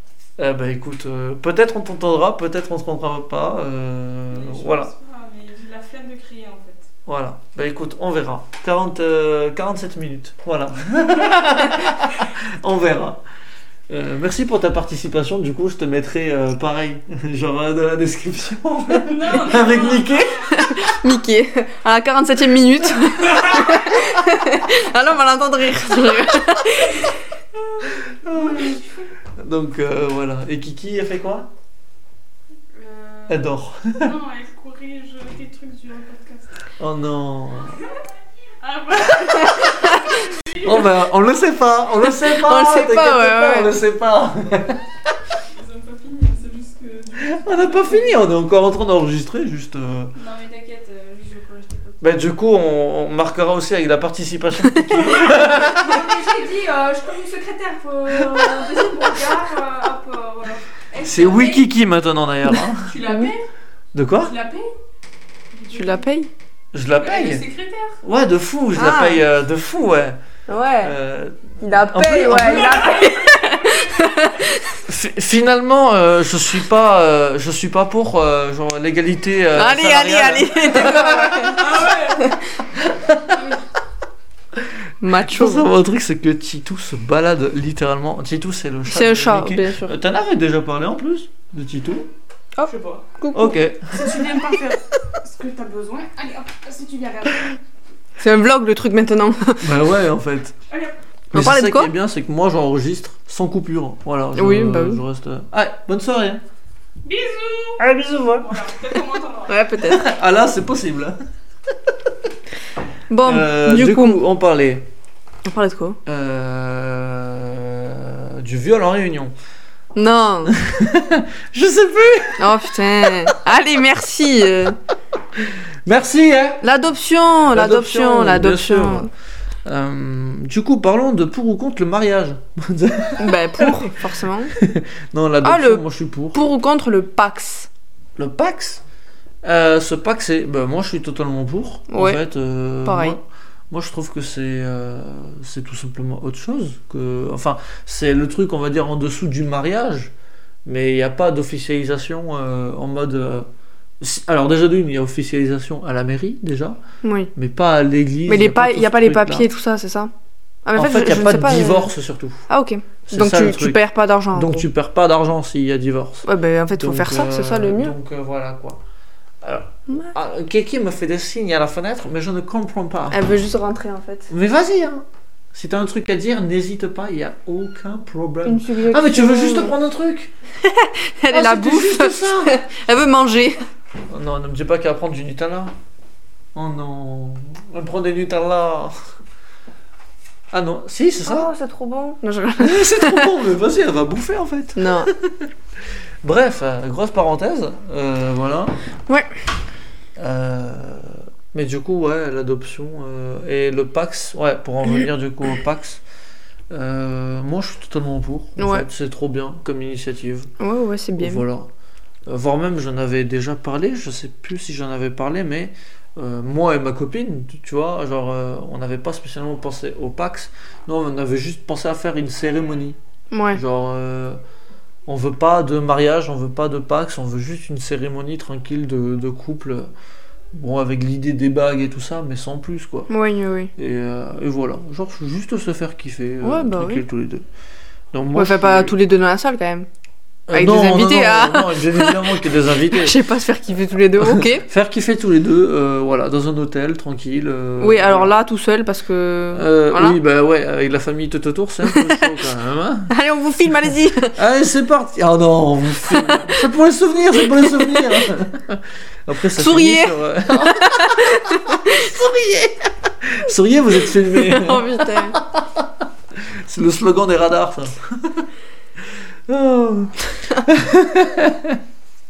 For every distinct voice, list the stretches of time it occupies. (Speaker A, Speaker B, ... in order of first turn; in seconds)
Speaker A: 0.4-4.9, 7.1-13.2, 13.9-20.7, 27.8-28.8, 29.4-31.5, 33.3-34.1, 36.8-37.8, 40.6-45.2, 47.2-50.2, 52.0-56.0, 61.0-63.0, 63.9-64.3, 66.7-67.4, 68.0-70.2, 70.8-73.0, 74.8-81.9, 82.7-83.4, 84.6-92.1, 93.3-94.5, 99.6-100.6, 101.3-106.4, 107.8-108.7, 109.8-111.2, 113.2-114.9, 116.1-119.3, 120.5-123.3, 125.9-126.7, 127.5-129.1, 129.7-134.0, 134.5-136.4, 138.2-138.8, 139.4-150.1, 150.7-153.5, 154.0-156.8, 157.3-159.5, 160.8-162.5, 163.1-163.8, 164.3-166.3, 166.8-168.8, 169.4-173.2, 174.3-180.3, 181.3-182.6, 184.1-185.7, 186.6-189.0, 190.5-191.5, 192.6-195.5, 196.2-198.8, 200.2-206.0, 206.7-210.5, 211.2-211.7, 212.3-223.0, 223.5-224.4, 225.1-229.9, 230.5-233.1, 233.8-237.4, 238.1-239.0, 240.5-243.2, 244.2-248.3, 249.5-253.2, 254.3-268.5, 269.5-271.8
Speaker B: 4.3-6.9, 18.9-20.6, 28.3-29.0, 32.7-36.6, 38.6-40.9, 45.4-48.3, 50.1-52.0, 55.0-61.7, 62.8-63.5, 64.2-64.7, 65.5-66.0, 67.0-68.0, 72.4-74.3, 81.5-82.3, 83.2-83.6, 92.7-93.1, 93.9-97.6, 100.7-101.0, 107.0-107.8, 108.4-109.6
Speaker C: 20.5-27.2, 39.4-40.2, 42.0-43.8, 63.0-63.3, 65.7-66.3, 68.8-69.2, 70.5-70.9, 71.6-74.8, 79.5-82.5, 85.0-85.7, 88.9-90.0, 92.6-93.6, 98.2-99.8, 101.3-101.9, 104.3-105.0, 109.5-110.1, 113.1-114.2, 115.4-116.0, 120.0-120.5, 122.4-124.8, 126.6-129.1, 133.2-134.5, 135.4-137.7, 141.9-142.2, 142.8-143.2, 157.0-157.3, 158.3-160.1, 160.7-161.9, 162.5-164.7, 166.2-167.9, 173.1-174.3, 178.4-179.8, 180.6-183.6, 191.2-193.3, 194.8-195.1, 208.6-208.9, 210.6-211.4, 223.3-223.6, 233.1-233.7, 236.4-237.0, 238.3-239.9, 240.5-244.7, 247.8-250.2, 251.8-252.4, 253.1-254.3, 256.0-256.7, 257.3-258.3, 259.5-262.1, 264.0-265.4